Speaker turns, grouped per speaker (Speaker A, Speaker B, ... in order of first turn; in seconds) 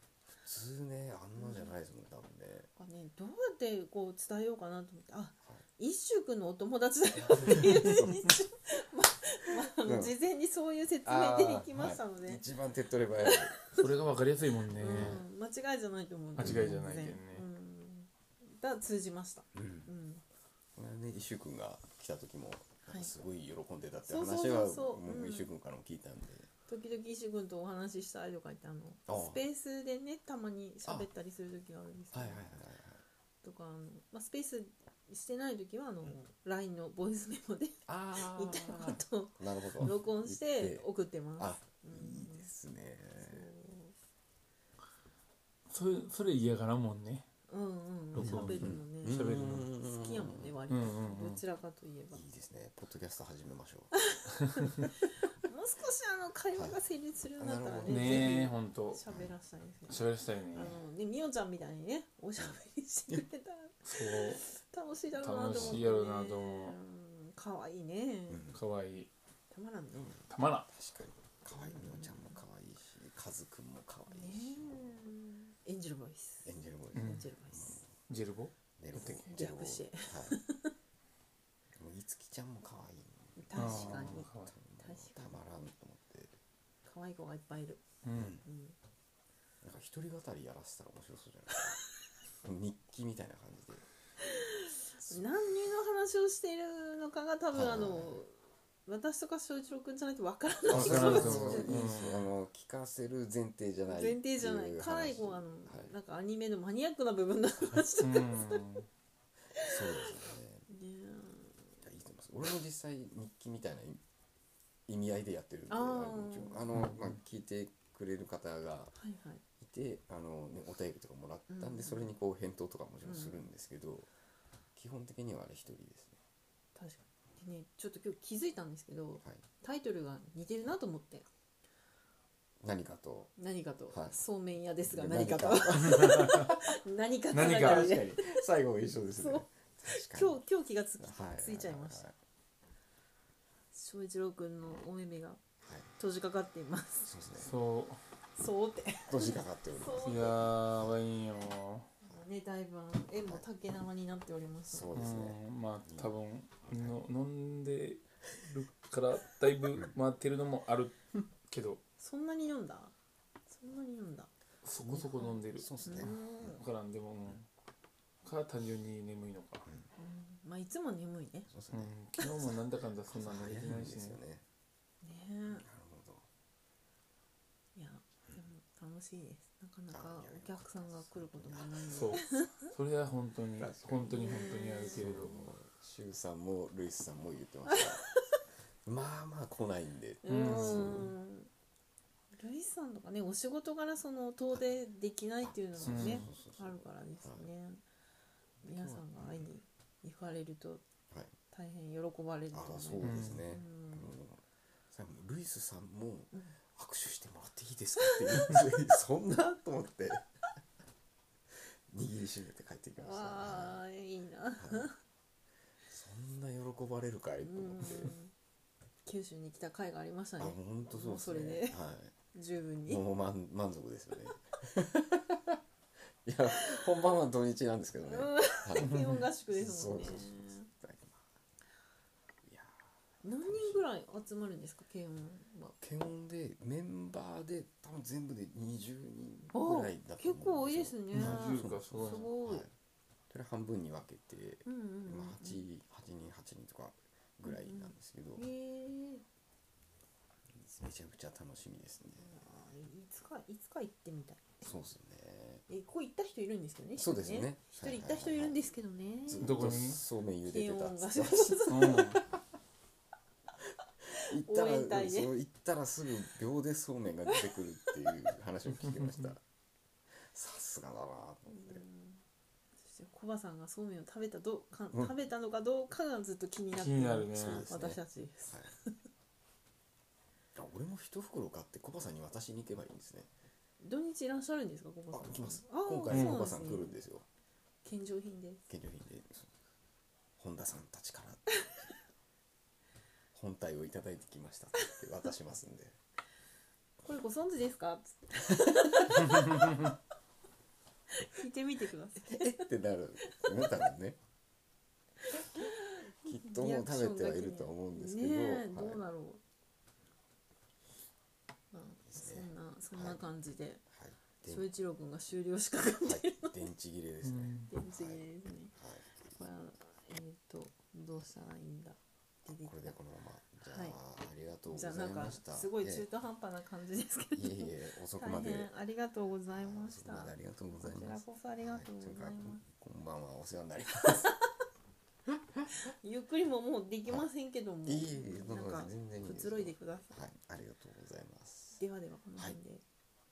Speaker A: 0.3-2.7, 7.2-8.3, 9.6-10.1, 11.0-13.6, 14.7-15.2, 16.4-16.8, 19.5-19.9, 20.8-26.5, 29.1-29.4, 30.8-31.1, 32.1-33.0, 37.9-40.9, 41.4-43.5, 48.2-50.5, 52.1-53.9, 57.4-58.4, 59.1-59.3, 65.5-65.8, 68.3-68.6, 70.0-74.8, 76.4-78.0, 78.8-80.4, 81.7-86.3, 88.1-88.4, 89.6-91.8, 92.4-93.8, 95.0-95.2, 97.5-98.2, 100.7-105.9, 109.6-110.6, 111.8-114.0, 114.9-118.9, 119.6-124.1, 124.7-126.2, 132.6-133.3, 133.9-134.2, 134.9-136.4, 137.3-140.4, 141.0-142.2, 145.6-145.9, 147.0-147.5, 149.1-150.5, 154.7-156.1, 156.7-156.9, 165.6-166.6, 171.5-174.4, 175.5-176.2, 179.9-182.1, 183.6-188.2, 188.8-191.1, 195.4-197.5, 198.6-199.5, 201.1-201.3, 202.5-210.3, 211.5-213.8, 214.6-214.9, 215.9-218.1, 220.4-222.1, 222.9-225.6, 226.2-231.2, 232.4-232.8, 233.4-233.8, 235.8-242.7, 243.3-248.5, 250.5-252.4, 254.6-255.6, 256.9-258.6, 259.2-262.4, 264.1-269.4, 270.1-271.8, 277.3-278.7, 280.5-283.3, 285.1-287.2, 288.7-289.5, 290.4-291.9, 293.3-296.0, 302.2-304.2, 306.2-309.0, 312.1-313.2, 313.9-314.6, 316.0-319.4, 322.6-326.1, 327.4-328.7, 329.5-334.4, 335.3-335.7, 337.9-341.8
Speaker B: 1.4-1.7, 2.8-12.4, 13.2-13.8, 14.8-20.2, 24.1-25.5, 26.7-32.5, 33.4-42.5, 43.2-43.9, 47.5-52.2, 54.0-68.5, 69.5-70.2, 71.5-72.4, 74.1-77.8, 79.3-80.7, 83.3-85.4, 86.8-87.8, 88.4-88.8, 94.2-101.9, 103.9-108.7, 109.6-110.0, 110.7-111.8, 115.7-116.7, 119.0-119.4, 121.5-122.1, 123.0-123.4, 126.7-131.3, 133.4-138.4, 139.2-142.0, 143.7-145.4, 146.0-147.1, 148.4-150.4, 152.0-154.9, 162.0-162.9, 163.5-164.3, 165.1-166.6, 170.0-171.5, 175.0-175.7, 177.7-182.7, 184.1-185.5, 187.7-188.4, 190.2-191.5, 192.3-197.8, 198.6-200.8, 201.5-204.1, 208.0-208.3, 213.0-214.9, 217.4-218.3, 219.0-221.8, 222.3-223.0, 228.0-230.7, 233.2-235.8, 239.5-242.7, 244.6-245.6, 247.4-249.2, 252.2-254.6, 255.7-259.8, 260.4-262.2, 264.1-265.3, 271.5-272.2, 272.8-278.9, 283.8-286.9, 287.8-288.6, 297.0-299.8, 301.1-302.6, 303.3-303.7, 305.3-309.4, 311.7-313.8, 314.4-316.6, 317.7-318.7, 319.3-323.0, 323.6-324.0, 324.7-332.6, 335.7-340.2, 341.8-342.8
Speaker C: 13.7-15.2, 16.4-17.4, 45.7-47.3, 48.1-49.7, 50.7-51.4, 57.8-59.0, 59.9-60.8, 63.8-64.4, 65.2-66.8, 68.5-69.1, 70.3-70.7, 76.9-77.3, 78.1-79.3, 83.5-84.5, 88.0-88.3, 100.7-102.3, 108.0-108.8, 116.7-117.1, 135.8-136.5, 137.3-137.9, 147.4-148.0, 150.0-151.9, 154.9-161.8, 164.6-167.4, 168.2-169.7, 171.7-174.2, 181.9-185.3, 190.3-191.1, 195.8-196.3, 203.0-203.4, 228.8-229.3, 241.1-242.3, 259.4-260.0, 261.7-262.2, 268.9-269.3, 276.8-277.7, 286.1-286.4, 317.2-317.7